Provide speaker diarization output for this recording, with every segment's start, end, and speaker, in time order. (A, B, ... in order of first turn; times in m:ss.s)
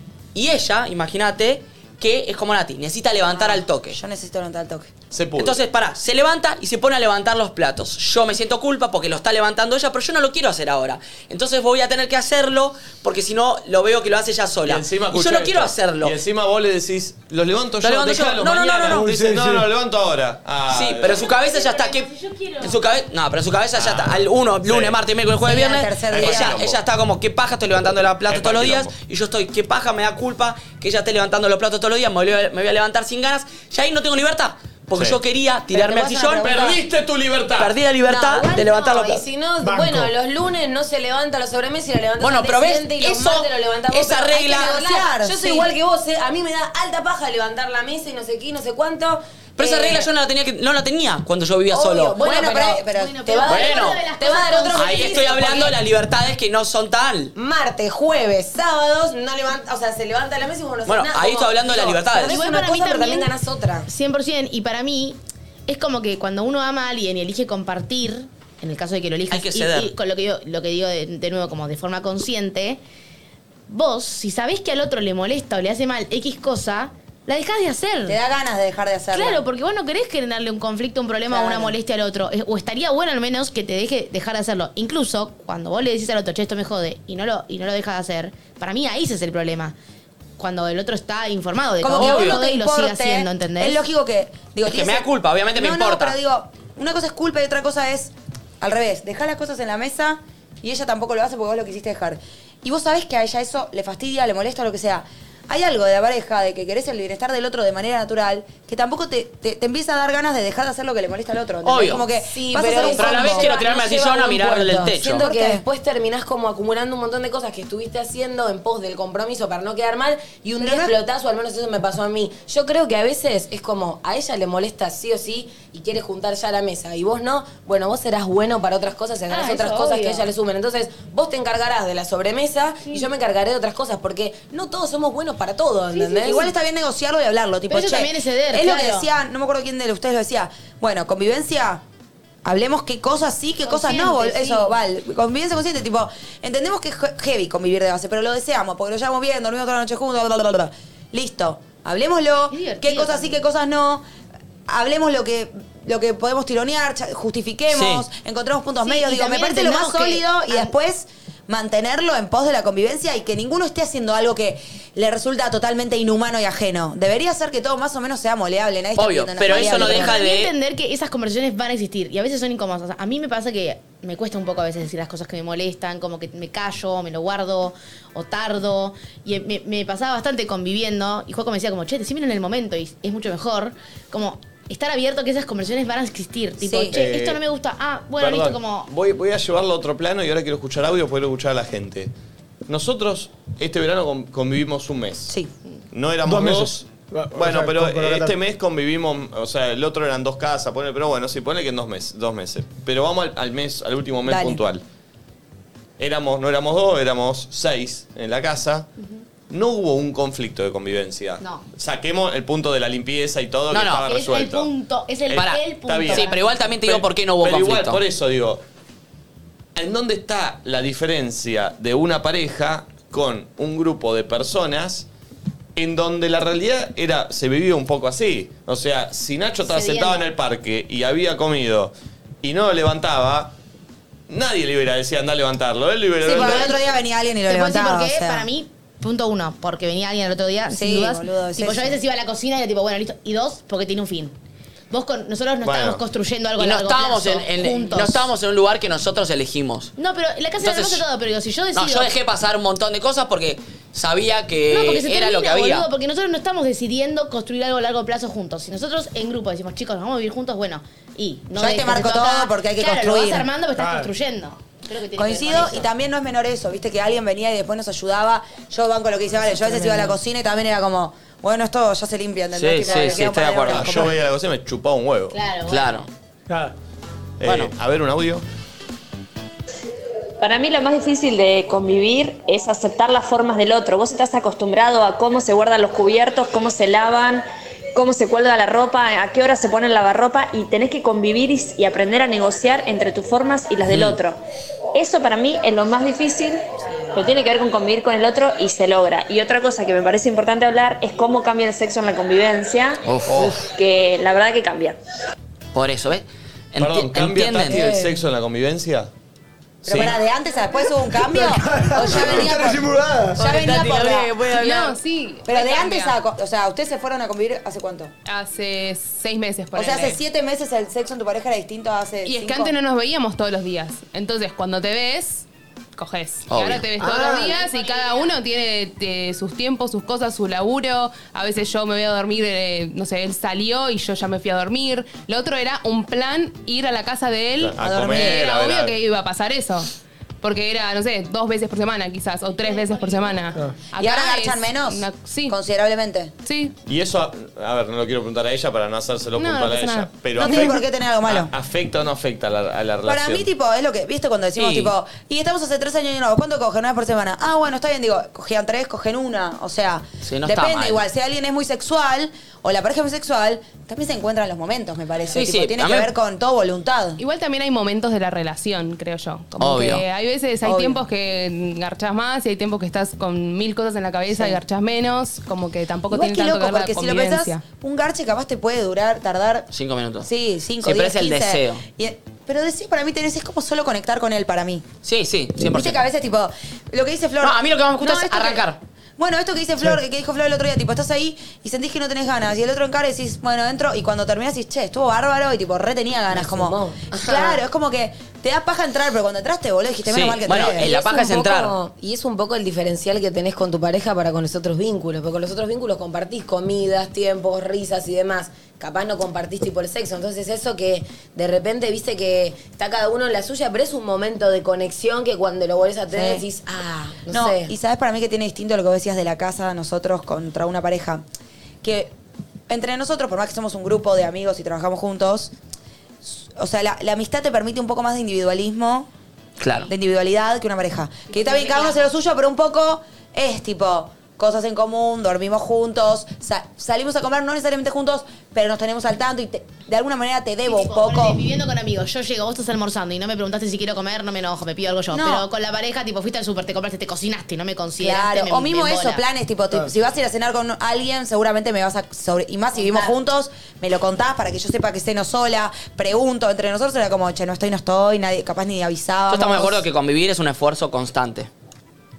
0:00.3-0:04.0 A
0:03.3-0:04.9 B
0:05.1-0:05.6 C
0:05.4-0:16.2 A
0:14.7-0:21.3 C
0:17.8-0:19.0 A
0:18.9-0:19.7 D
0:20.7-0:22.1 A
0:21.3-0:22.8 E
0:22.6-0:36.7 A
0:23.8-0:25.0 C
0:25.5-0:26.6 B
0:26.1-0:26.8 C
0:28.3-0:29.0 C
0:35.0-0:35.2 C
0:35.7-0:36.8 F
0:36.4-0:37.8 C
0:37.6-0:39.2 A
0:38.1-0:50.1 F
0:39.7-0:40.1 D
0:42.2-0:44.8 A
0:44.3-0:45.7 B
0:49.6-0:52.2 A
0:51.7-0:55.8 F
0:52.1-0:53.4 B
0:52.3-0:55.2 E
0:53.5-0:54.0 A
0:54.8-0:57.3 A
0:57.4-1:03.9 F
1:00.9-1:02.4 A
1:02.3-1:03.3 E
1:03.9-1:12.8 E
1:09.3-1:09.9 A
1:13.7-1:18.2 E
1:18.1-1:19.4 B
1:19.1-1:29.8 E
1:21.3-1:21.8 B
1:30.4-1:33.8 E
1:31.8-1:53.5 B
1:32.0-1:32.4 A
1:34.7-1:36.2 A
1:51.6-1:52.0 A
1:52.0-2:16.4 F
1:52.9-1:55.2 A
1:55.1-1:55.6 B
2:00.6-2:01.0 B
2:09.3-2:10.3 E
2:16.0-2:16.5 E
2:16.1-2:21.8 B
2:17.7-2:19.1 E
2:22.4-2:34.0 B
2:23.6-2:24.8 E
2:32.5-2:33.4 E
2:34.7-2:50.2 B
2:37.7-2:38.1 A
2:38.8-2:40.7 E
2:49.0-2:50.5 A
2:49.6-3:08.9 E
3:06.6-3:07.0 B
3:06.9-3:07.4 C
3:08.2-3:12.1 C
3:12.7-3:15.4 C
3:15.9-3:24.8 C
3:16.2-3:18.4 D
3:24.2-3:24.6 B
3:26.0-3:28.9 C
3:29.5-3:34.7 C
3:33.7-3:34.0 A
3:34.1-3:36.6 E
3:35.3-3:38.6 C
3:35.3-3:38.0 A
3:39.8-3:45.1 C
3:45.8-3:53.5 C
3:49.7-3:50.2 E
3:54.3-3:56.8 C
3:56.2-3:58.5 B
3:56.3-3:56.8 E
3:57.5-4:04.4 E
4:00.7-4:02.0 B
4:04.9-4:08.3 E
4:05.6-4:06.0 C
4:06.6-4:09.9 A
4:10.0-4:12.1 E
4:10.6-4:11.0 A
4:11.8-4:15.9 A
4:14.7-4:25.9 E
4:21.6-4:23.5 B
4:23.8-4:24.1 D
4:25.2-4:34.1 B
4:32.6-4:33.9 A
4:33.6-4:35.4 C
4:35.3-4:36.0 E
4:35.7-4:36.1 A
4:36.5-4:36.7 D
4:37.4-4:38.4 C
4:37.4-4:37.7 A
4:40.4-4:47.4 G
4:48.0-4:54.4 G
4:53.9-4:54.2 A
4:55.0-4:56.6 G
4:57.1-5:03.0 G
5:03.0-5:03.6 A
5:03.6-5:05.0 G
5:05.7-5:07.9 A
5:06.8-5:09.1 C
5:07.7-5:08.1 F
5:09.8-5:10.2 C
5:09.8-5:14.4 B
5:11.2-5:13.4 D
5:12.1-5:12.5 C
5:13.4-5:15.0 A
5:14.4-5:16.2 H
5:15.5-5:18.1 B
5:18.3-5:20.2 H
5:19.7-5:22.8 B
5:22.2-5:25.4 H
5:26.0-5:39.9 H
5:26.5-5:26.8 A
5:27.0-5:27.5 D
5:27.1-5:28.3 E
5:37.6-5:39.0 C
5:37.8-5:38.4 B
5:40.4-5:45.6 H
5:42.6-5:43.6 E
5:44.0-5:46.3 B
5:46.4-5:46.8 H
5:46.9-5:53.5 C
5:49.4-5:50.7 H
5:50.4-5:51.5 B
5:53.1-6:07.2 B
5:54.6-5:54.9 A
6:00.2-6:01.0 A
6:05.3-6:06.1 A
6:07.2-6:17.6 H
6:09.6-6:10.0 A
6:10.6-6:11.0 B
6:14.3-6:14.6 B
6:16.1-6:19.7 B
6:19.7-6:20.3 A
6:20.2-6:24.8 B
6:20.8-6:21.8 A
6:25.0-6:26.0 A
6:25.6-6:28.6 B
6:27.4-6:28.8 A
6:29.2-6:40.9 B
6:36.3-6:37.6 F
6:40.1-6:41.7 A
6:40.6-6:57.7 F
6:56.1-6:56.4 B
6:57.3-7:01.2 B
7:01.8-7:02.1 B
7:02.7-7:05.5 B
7:06.2-7:09.1 B
7:09.6-7:09.9 A
7:09.9-7:21.4 B
7:11.3-7:12.0 E
7:20.7-7:29.2 E
7:25.1-7:25.5 B
7:28.0-7:39.8 B
7:32.8-7:33.1 E
7:39.3-7:41.5 A